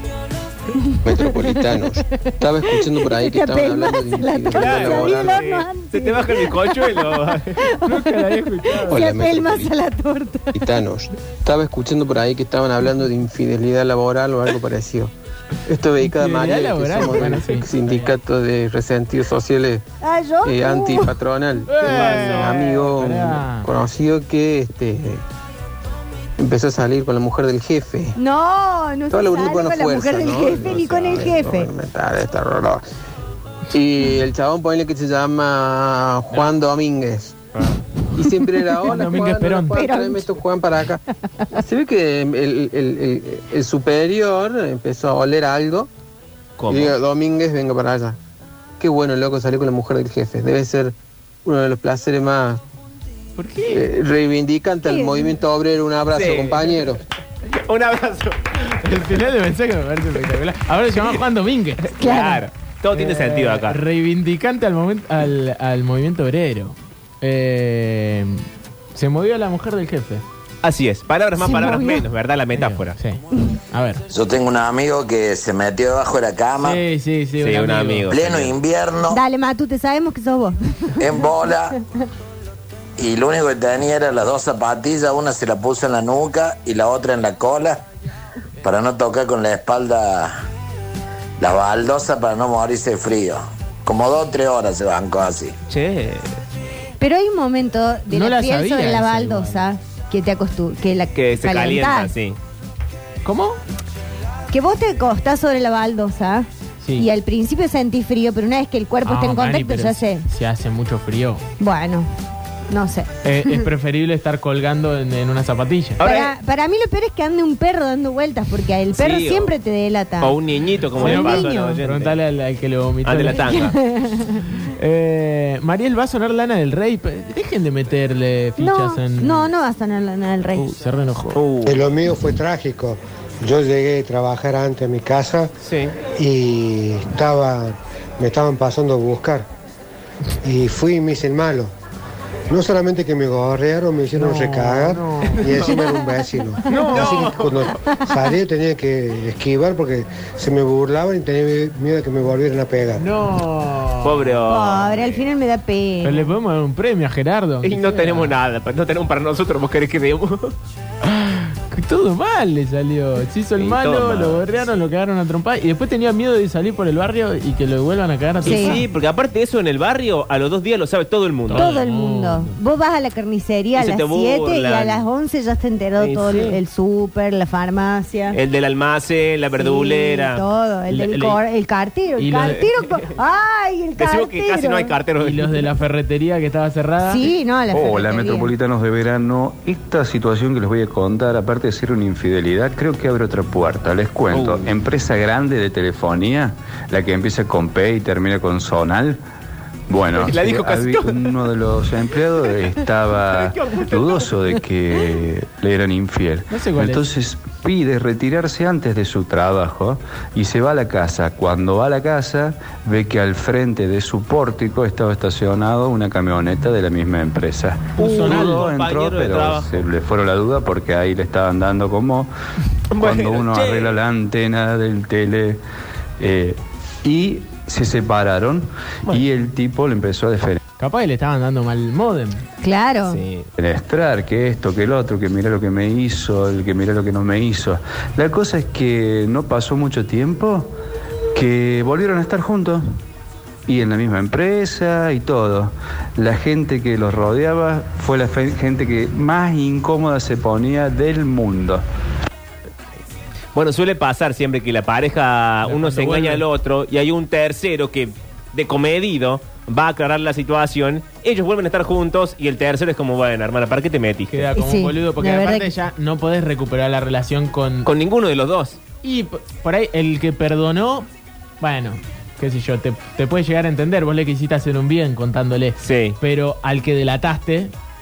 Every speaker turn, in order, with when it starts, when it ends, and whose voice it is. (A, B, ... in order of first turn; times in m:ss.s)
0:00.8-0:10.5 A
0:01.0-0:05.4 B
0:04.5-0:07.6 C
0:07.8-0:09.0 D
0:08.9-0:09.7 B
0:10.5-0:15.1 B
0:15.7-0:19.8 B
0:16.0-0:18.1 D
0:20.0-0:21.2 A
0:20.4-0:25.2 B
0:21.7-0:23.7 D
0:26.4-0:28.2 B
0:28.2-0:31.7 A
0:29.1-0:32.8 B
0:33.7-0:37.4 B
0:38.1-0:41.0 B
0:38.8-0:39.7 D
0:39.7-0:40.4 A
0:41.6-0:45.9 B
0:46.6-0:46.9 C
0:46.7-0:48.2 B
0:48.8-0:50.9 B
0:51.4-0:52.6 B
0:53.4-0:53.9 D
0:53.7-0:57.0 B
0:54.8-0:55.3 A
0:56.1-0:56.8 C
0:57.5-0:58.4 C
0:58.8-1:01.8 D
1:01.8-1:03.8 C
1:02.0-1:02.4 A
1:02.9-1:10.2 D
1:10.6-1:13.0 C
1:11.4-1:12.0 A
1:12.6-1:14.0 D
1:14.1-1:16.8 E
1:16.6-1:18.1 D
1:17.4-1:18.6 C
1:18.1-1:19.2 E
1:19.1-1:21.0 A
1:21.0-1:21.7 E
1:23.0-1:27.8 E
1:28.6-1:30.4 E
1:31.4-1:35.5 E
1:35.7-1:36.3 C
1:37.0-1:42.1 A
1:38.1-1:39.6 D
1:41.1-1:42.4 C
1:43.2-1:43.6 D
1:44.5-1:50.2 A
1:49.0-1:51.4 D
1:51.6-1:52.1 A
1:52.7-1:53.6 A
1:53.2-1:56.0 D
1:56.0-1:56.3 C
1:56.0-2:01.8 A
1:58.9-1:59.5 C
2:00.2-2:02.2 C
2:01.0-2:03.4 D
2:03.0-2:03.8 C
2:03.4-2:04.4 A
2:04.6-2:09.5 D
2:08.6-2:10.7 A
2:10.6-2:11.4 D
2:11.3-2:11.8 C
2:11.6-2:15.5 F
2:15.6-2:15.9 C
2:16.1-2:19.4 F
2:20.4-2:21.7 F
2:22.5-2:33.0 F
2:24.1-2:25.7 D
2:26.6-2:27.4 D
2:26.8-2:27.7 C
2:33.0-2:34.4 D
2:34.0-2:35.2 C
2:34.4-2:36.3 A
2:36.0-2:38.3 D
2:37.6-2:40.5 C
2:41.0-2:48.8 D
2:43.6-2:44.5 C
2:48.4-2:51.7 C
2:48.4-2:48.8 A
2:51.5-2:52.6 D
2:51.5-2:58.4 A
2:53.8-2:55.0 C
2:56.0-2:56.6 C
2:58.3-3:01.4 C
2:59.6-3:04.9 A
3:02.2-3:02.7 D
3:04.0-3:05.6 C
3:05.2-3:07.2 D
3:07.0-3:08.5 A
3:07.7-3:19.2 G
3:14.3-3:14.7 C
3:19.9-3:42.3 G
3:20.2-3:21.2 C
3:23.2-3:24.3 C
3:26.5-3:27.0 D
3:38.0-3:39.9 C
3:38.0-3:38.7 D
3:42.9-3:44.0 C
3:42.9-3:45.6 G
3:46.2-3:50.6 G
3:50.8-3:52.4 D
3:52.6-3:53.2 A
3:53.0-3:53.4 C
3:53.6-4:00.7 G
4:01.3-4:03.0 G
4:03.6-4:11.8 G
4:13.5-4:24.5 C
4:15.6-4:16.4 D
4:24.3-4:27.9 D
4:24.6-4:25.7 A
4:27.8-4:28.8 C
4:29.0-4:31.1 D
4:31.6-4:37.7 D
4:35.8-4:36.2 C